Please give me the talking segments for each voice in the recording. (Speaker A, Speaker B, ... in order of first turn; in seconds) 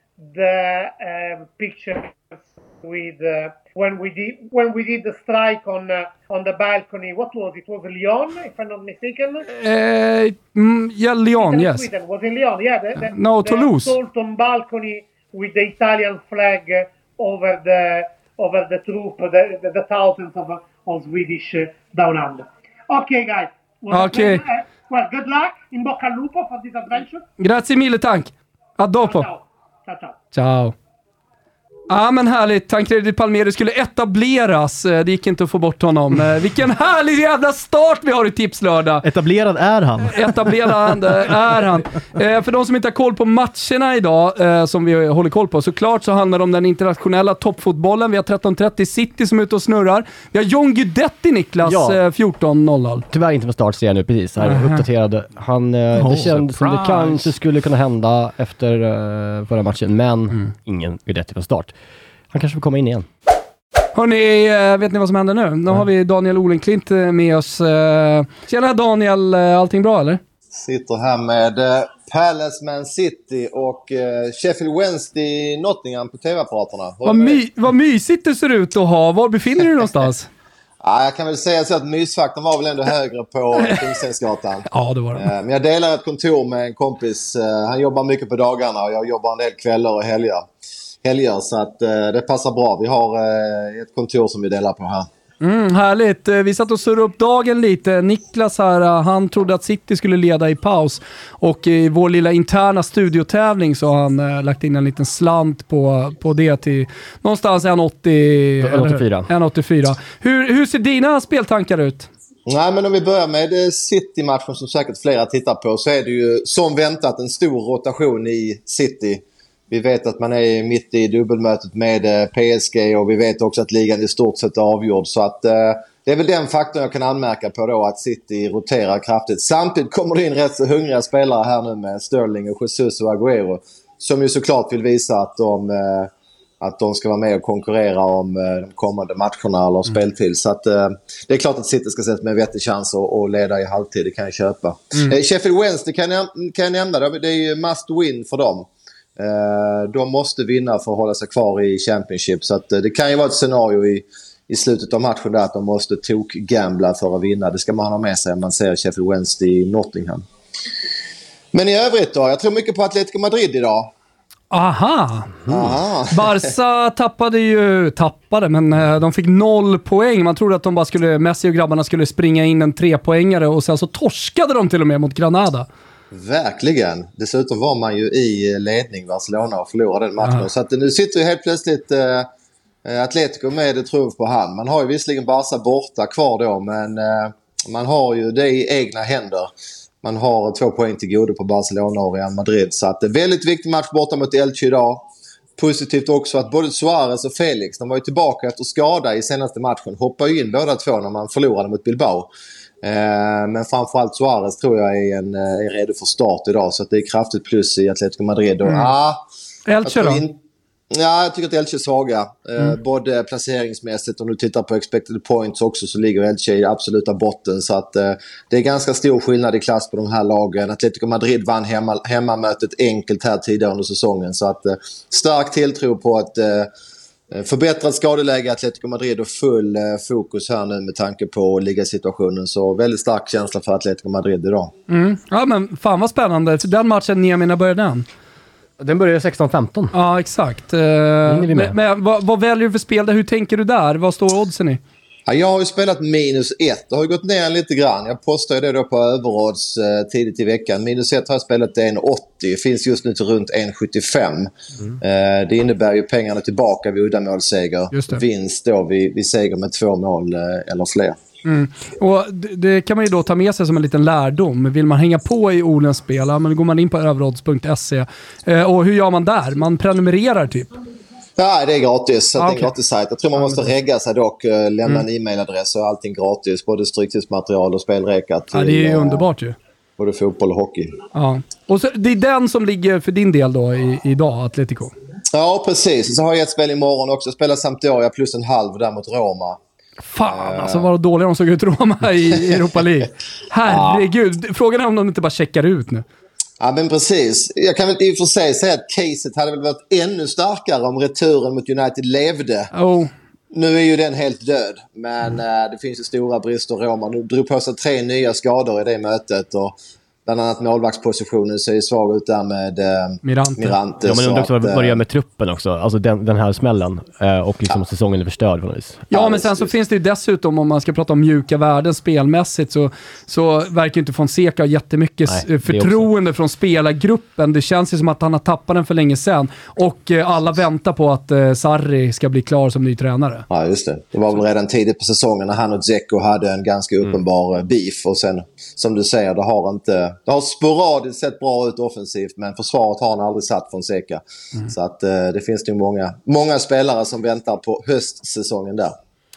Speaker A: 0.2-9.4, 11.4-27.2, 29.0-30.1
Speaker B: 9.5-11.9, 13.0-13.9, 23.9-24.4, 27.4-29.3, 30.3-30.7, 31.9-39.0, 40.1-53.0, 54.4-54.8, 56.6-57.1, 63.9-70.2, 77.0-80.3, 84.7-85.2, 95.4-112.1, 164.5-165.4, 166.1-175.7, 209.7-210.2, 234.9-238.1, 239.9-244.8, 257.9-258.2, 261.4-270.7, 272.4-272.7, 273.4-273.7, 278.5-279.5, 281.1-284.9, 290.0-296.0, 302.7-303.1, 313.2-313.8, 319.1-333.4
Speaker C: 39.0-40.9, 56.0-56.4
Speaker D: 51.6-52.0, 53.1-61.7, 62.3-63.1, 108.6-109.3, 238.8-239.9, 241.3-241.8, 314.0-319.3, 325.3-326.1
Speaker E: 70.5-77.4, 80.8-90.5, 91.0-95.1, 112.5-136.1, 136.6-160.2, 161.5-163.9, 165.4-166.5, 176.1-182.3, 182.8-189.5, 190.0-195.0, 195.6-202.3, 202.8-209.2, 209.8-210.4, 210.9-226.7, 227.3-234.7, 245.3-261.2, 271.4-279.2, 280.0-281.0, 285.3-289.6, 290.2-290.9, 293.6-294.0, 296.6-302.7, 303.5-309.7, 310.2-315.0, 319.1-319.7, 333.5-348.9